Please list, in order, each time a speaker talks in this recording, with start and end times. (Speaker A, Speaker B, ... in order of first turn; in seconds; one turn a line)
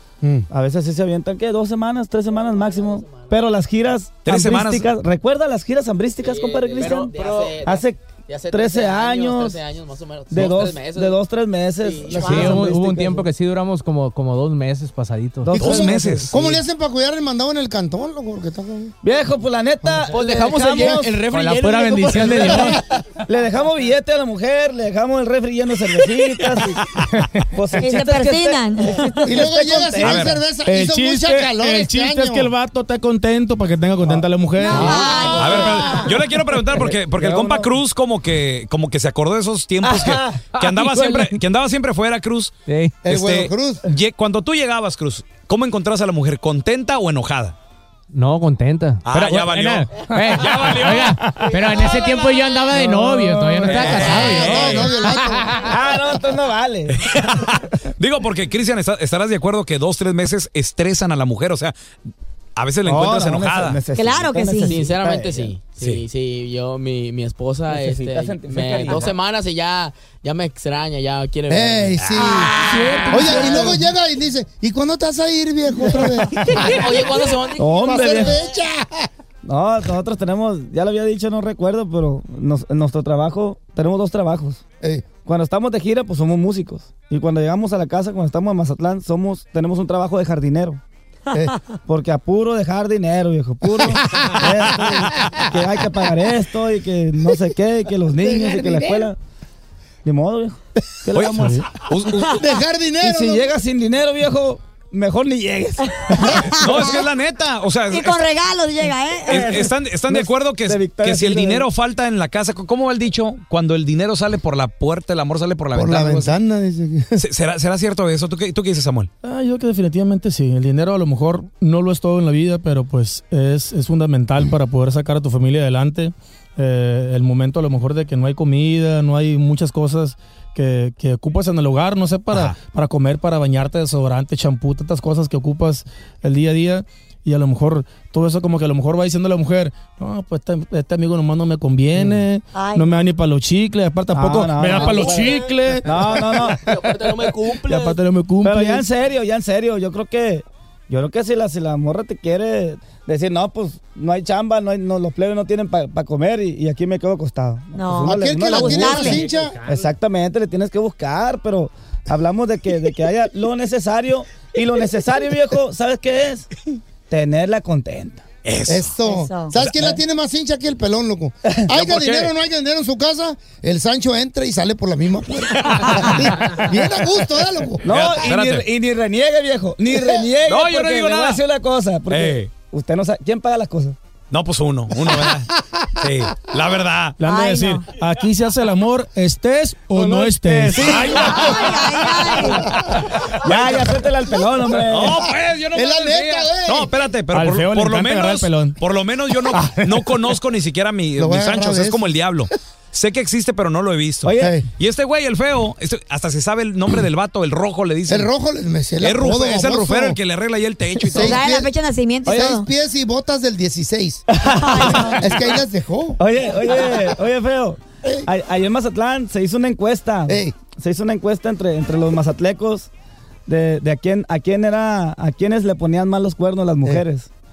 Speaker A: 0.2-0.5
Speaker B: 0.5-9.6
Speaker C: 2.3-3.3
Speaker D: 4.3-4.9
Speaker C: 6.2-11.2
Speaker E: 7.1-7.5
Speaker B: 10.3-13.3
Speaker C: 11.8-12.7
Speaker E: 12.1-15.6
Speaker B: 15.4-16.4
Speaker D: 15.5-16.3
Speaker A: 15.6-18.9
Speaker B: 19.0-21.3
Speaker C: 20.1-20.5
Speaker E: 20.2-22.8
Speaker A: 20.8-21.1
Speaker C: 21.4-22.5
Speaker B: 22.3-26.9
Speaker B: 27.5-30.3
Speaker F: 27.8-29.3
Speaker A: 29.3-32.5
Speaker D: 30.0-30.4
Speaker G: 30.6-35.0
Speaker F: 34.6-36.1
Speaker B: 34.7-37.7
Speaker D: 35.4-42.5
Speaker B: 39.8-40.4
Speaker E: 40.6-41.3
Speaker E: 42.7-42.9
Speaker A: 43.0-43.9
Speaker D: 43.1-47.6
Speaker E: 48.1-55.3
Speaker D: 49.1-52.7
Speaker B: 52.7-54.0
Speaker G: 53.3-54.0
Speaker D: 53.7-55.0
Speaker A: 54.0-55.6
Speaker B: 55.5-57.0
Speaker D: 56.9-61.7
Speaker D: 62.6-63.9
Speaker B: 62.9-65.5
Speaker F: 64.0-64.8
Speaker C: 64.6-73.1
Speaker D: 65.8-66.0
Speaker B: 67.7-69.1
Speaker A: 71.5-72.5
Speaker F: 72.1-73.5
Speaker A: 73.1-76.9
Speaker B: 73.2-73.8
Speaker B: 75.9-76.9
Speaker C: 76.3-78.3
Speaker B: 77.5-78.5
Speaker A: 77.8-79.1
Speaker B: 79.4-84.6
Speaker B: 85.2-90.8
Speaker A: 91.3-91.6
Speaker B: 91.9-99.2
Speaker A: 93.8-95.1
Speaker A: 98.2-99.1
Speaker B: 100.0-101.7
Speaker D: 101.2-102.4
Speaker G: 101.3-101.6
Speaker A: 102.3-103.5
Speaker B: 103.0-107.0
Speaker D: 106.5-108.3
Speaker F: 107.9-109.4
Speaker B: 109.2-111.7
Speaker D: 109.3-116.3
Speaker A: 115.7-117.2
Speaker D: 117.2-119.1
Speaker G: 119.2-148.9
Speaker F: 142.5-142.8
Speaker B: 144.1-146.7
Speaker C: 144.8-145.5
Speaker C: 146.4-148.0
Speaker B: 148.4-166.5
Speaker F: 157.7-159.2
Speaker A: 158.1-159.6
Speaker C: 159.3-159.8
Speaker B: 167.1-168.2
Speaker D: 168.4-168.9
Speaker A: 168.7-177.8
Speaker F: 169.0-169.6
Speaker B: 169.6-170.0
Speaker B: 171.5-171.8
Speaker D: 171.9-172.3
Speaker D: 175.7-176.0
Speaker B: 177.8-184.0
Speaker D: 177.9-178.7
Speaker D: 180.5-181.4
Speaker D: 182.1-182.5
Speaker D: 184.3-187.2
Speaker G: 187.2-191.8
Speaker F: 187.3-187.8
Speaker B: 189.9-191.6
Speaker D: 191.1-191.7
Speaker F: 191.2-192.6
Speaker B: 192.3-192.6
Speaker G: 193.4-194.0
Speaker B: 193.4-195.2
Speaker D: 193.4-193.8
Speaker D: 194.8-208.3
Speaker A: 195.7-196.9
Speaker G: 197.3-198.8
Speaker G: 199.3-200.2
Speaker A: 201.2-202.5
Speaker B: 204.2-204.6
Speaker A: 204.3-204.7
Speaker A: 208.1-210.2
Speaker D: 209.0-211.4
Speaker A: 211.0-211.8
Speaker F: 211.2-212.7
Speaker A: 212.3-216.2
Speaker B: 214.3-215.2
Speaker F: 214.5-215.3
Speaker B: 216.2-222.9
Speaker A: 220.3-220.6
Speaker B: 223.5-227.3